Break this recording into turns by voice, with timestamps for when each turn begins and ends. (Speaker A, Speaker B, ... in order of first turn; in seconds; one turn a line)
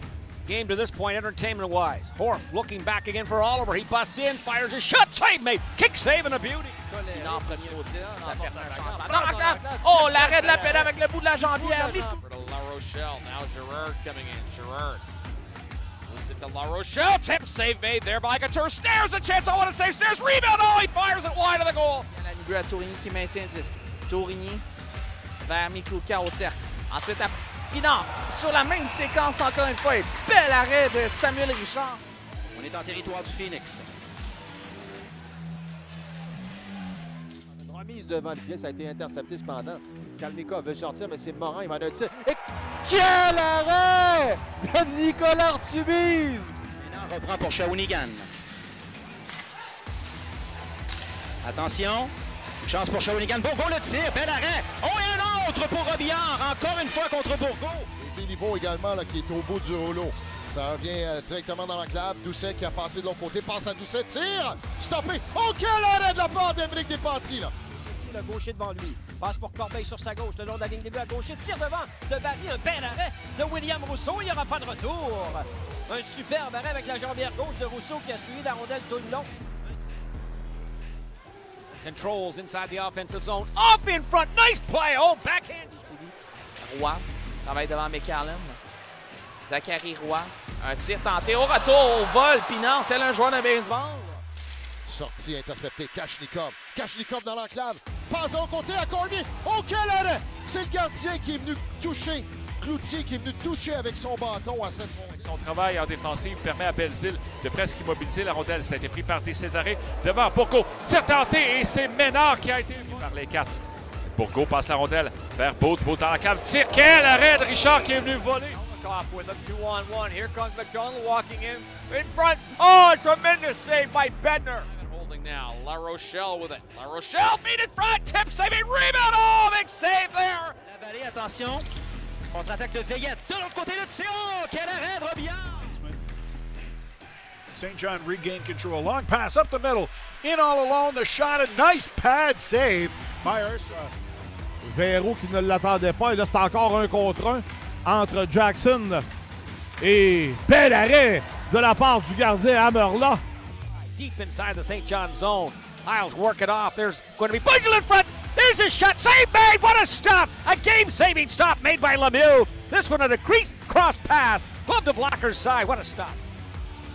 Speaker A: 0.5-6.7
Speaker B: 6.9-8.4
Speaker C: 7.1-12.2
Speaker D: 8.8-9.2
Speaker B: 9.3-10.9
Speaker B: 11.4-12.2
Speaker E: 12.3-15.0
Speaker E: 16.1-22.0
Speaker C: 22.1-24.6
Speaker C: 25.4-32.0
Speaker F: 32.5-33.9
Speaker B: 37.6-46.5
Speaker F: 46.8-48.3
Speaker F: 51.4-57.9
Speaker G: 58.0-67.5
Speaker D: 67.8-79.3
Speaker A: 81.8-85.7
Speaker C: 85.8-88.6
Speaker C: 89.4-94.2
Speaker G: 94.9-105.2
Speaker H: 105.2-118.5
Speaker I: 118.6-124.7
Speaker E: 124.7-130.5
Speaker F: 130.6-131.7
Speaker F: 132.3-135.8
Speaker J: 135.7-136.0
Speaker J: 137.5-143.9
Speaker K: 144.6-149.0
Speaker K: 149.8-153.2
Speaker A: 154.0-166.2